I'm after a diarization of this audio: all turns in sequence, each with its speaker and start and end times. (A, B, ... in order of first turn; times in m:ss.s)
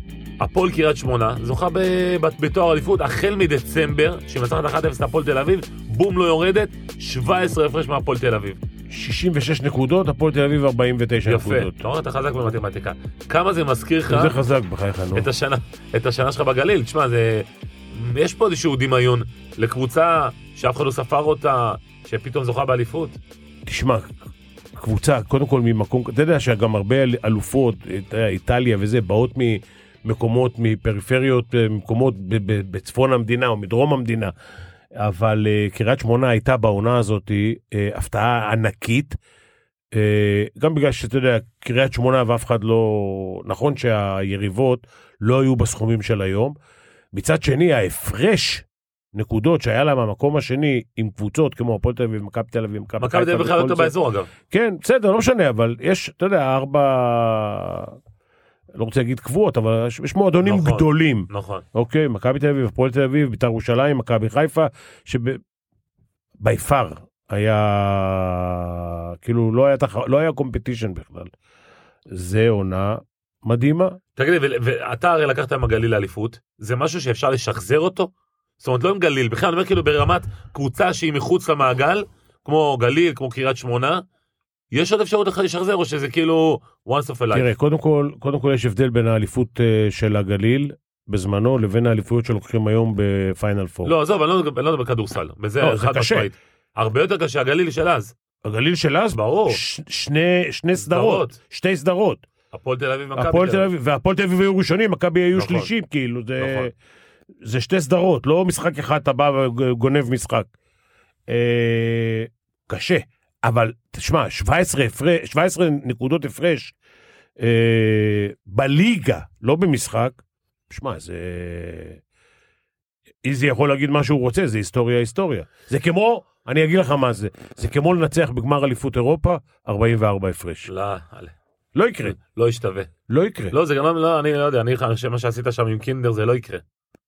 0:00.4-0:08.6 A
0:08.9-0:11.8 B
0:11.2-0:14.4 A
0:14.1-0:15.3 B
0:15.2-0:23.2 A
0:23.7-0:24.1 B
0:24.8-0:34.3 B
0:34.9-0:39.2 B
0:39.9-0:46.6 B
0:47.1-0:54.0 B
0:53.0-0:54.3 A
0:54.5-0:58.0 B
0:58.7-1:05.4 B
1:00.4-1:01.6 A
1:06.4-1:11.3 B
1:12.1-1:14.0 B
1:14.2-1:24.0 A
1:24.7-1:27.5 A
1:27.3-1:33.9 B
1:33.8-1:38.1 A
1:35.6-1:36.3 B
1:38.4-1:42.2 B
1:39.1-1:39.6 A
1:40.8-1:41.4 A
1:42.5-1:43.7 A
1:43.2-1:46.7 B
1:45.3-1:45.7 A
1:46.4-1:46.7 A
1:47.4-1:50.5 B
1:51.3-1:56.8 B
1:57.4-2:02.0 B
2:03.2-2:10.7 B
2:10.7-2:11.4 A
2:11.8-2:12.2 B
2:12.1-2:12.9 A
2:13.1-2:13.6 B
2:13.5-2:16.6 A